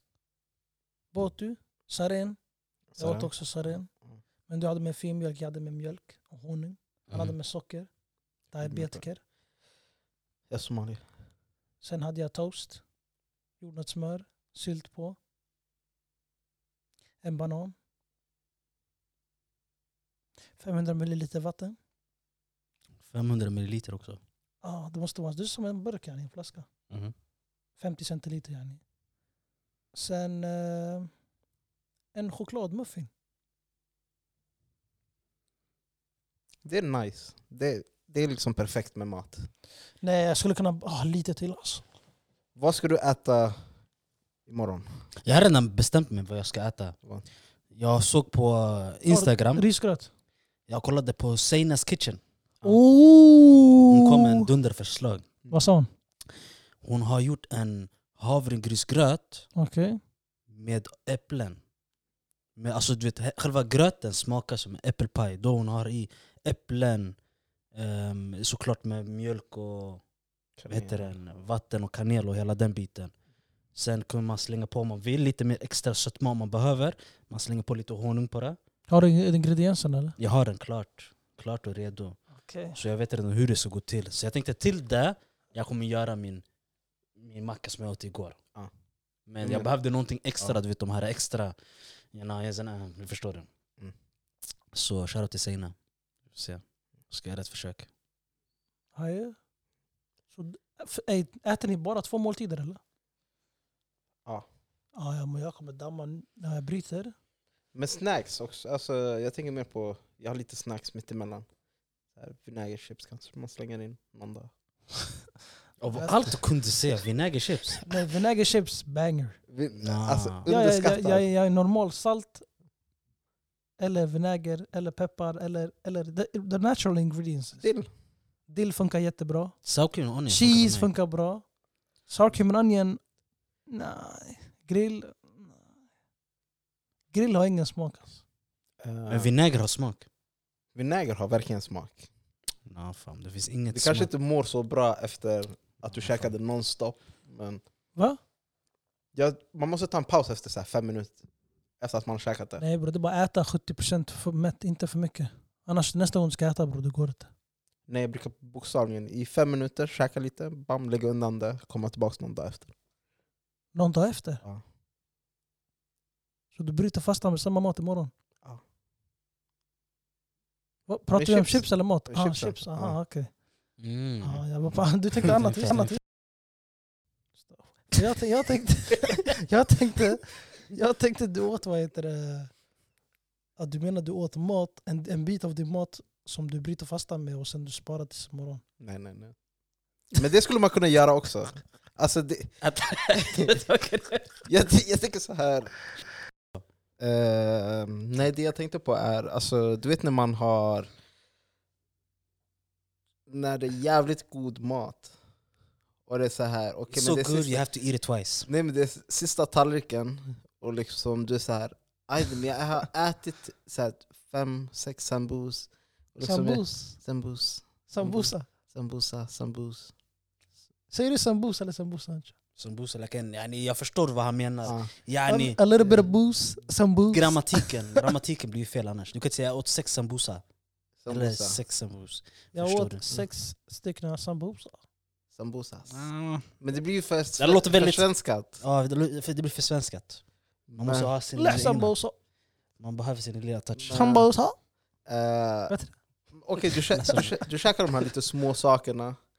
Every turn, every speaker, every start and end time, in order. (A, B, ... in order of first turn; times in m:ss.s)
0:01.1-0:02.4 A
0:02.9-0:03.3 B
0:03.0-0:03.9 A
0:04.5-0:07.9 A
0:07.1-0:07.4 C
0:08.5-0:09.2 A
0:08.6-0:09.0 B
0:10.5-0:11.0 B
0:11.8-0:12.8 A
0:13.6-0:15.2 A
0:17.2-0:17.8 A
0:20.6-0:21.8 A
0:23.0-0:24.2 C
0:24.6-0:26.7 A
0:27.8-0:28.8 A
0:29.9-0:31.1 A
0:32.1-0:33.1 A
0:36.6-0:39.5 B
0:40.0-0:41.9 A
0:42.6-0:43.6 B
0:44.5-0:44.9 B
0:45.2-0:47.0 C
0:47.8-0:49.7 C
0:49.1-0:50.1 A
0:50.7-0:52.2 C
0:52.6-0:54.5 A
0:53.9-0:55.3 C
0:55.5-0:55.9 A
0:56.8-0:59.5 C
0:59.6-1:00.0 A
1:00.5-1:01.6 C
1:02.6-1:07.2 C
1:07.7-1:10.0 C
1:10.6-1:11.1 B
1:10.7-1:13.1 C
1:13.8-1:18.6 C
1:18.9-1:20.2 A
1:20.2-1:22.2 C
1:22.4-1:22.8 A
1:22.7-1:26.4 C
1:27.2-1:28.4 C
1:29.3-1:31.6 C
1:29.4-1:29.7 B
1:32.1-1:33.5 C
1:34.7-1:35.7 C
1:36.3-1:37.9 C
1:39.0-1:39.4 A
1:40.3-1:42.8 A
1:45.0-1:47.1 A
1:47.7-1:51.5 B
1:52.2-1:54.5 B
1:55.8-1:57.8 C
1:57.9-1:59.4 A
1:59.5-2:01.3 B
1:59.8-2:00.5 C
2:00.5-2:02.5 A
2:03.8-2:07.6 A
2:07.6-2:07.9 B
2:08.5-2:09.6 A
2:09.6-2:10.9 C
2:10.3-2:11.4 A
2:12.1-2:13.0 A
2:13.7-2:15.6 A
2:17.1-2:18.2 A
2:18.8-2:19.3 B
2:19.1-2:20.1 C
2:20.8-2:22.1 B
2:22.7-2:24.1 C
2:23.7-2:27.6 B
2:26.0-2:26.3 C
2:29.1-2:31.2 B
2:31.8-2:32.6 B
2:32.6-2:37.3 A
2:37.9-2:42.7 B
2:43.7-2:44.4 A
2:46.5-2:48.1 A
2:50.9-2:53.3 A
2:51.1-2:53.0 B
2:53.8-2:54.4 C
2:54.2-2:56.0 A
2:55.5-2:55.9 C
2:57.5-3:02.5 A
3:03.6-3:08.6 A
3:08.8-3:09.4 B
3:10.1-3:12.6 B
3:12.6-3:14.4 C
3:13.1-3:13.6 B
3:14.5-3:15.8 B
3:17.0-3:20.9 B
3:23.3-3:25.1 B
3:26.1-3:27.6 B
3:26.9-3:28.5 C
3:28.5-3:39.9 B
3:36.2-3:37.0 A
3:37.9-3:38.5 A
3:40.9-3:42.3 A
3:42.6-3:45.6 C
3:45.3-3:48.1 A
3:47.1-3:50.4 C
3:51.0-3:51.6 B
3:51.1-3:53.1 C
3:52.5-3:54.8 A
3:55.3-3:56.1 B
3:55.9-3:56.5 C
3:56.6-3:58.6 B
3:57.4-3:58.1 C
3:58.6-4:00.2 C
4:00.7-4:01.1 B
4:00.7-4:01.9 C
4:01.4-4:02.1 A
4:02.8-4:04.2 C
4:03.8-4:04.3 B
4:03.9-4:04.6 A
4:05.1-4:05.8 B
4:06.3-4:09.2 B
4:06.9-4:07.4 C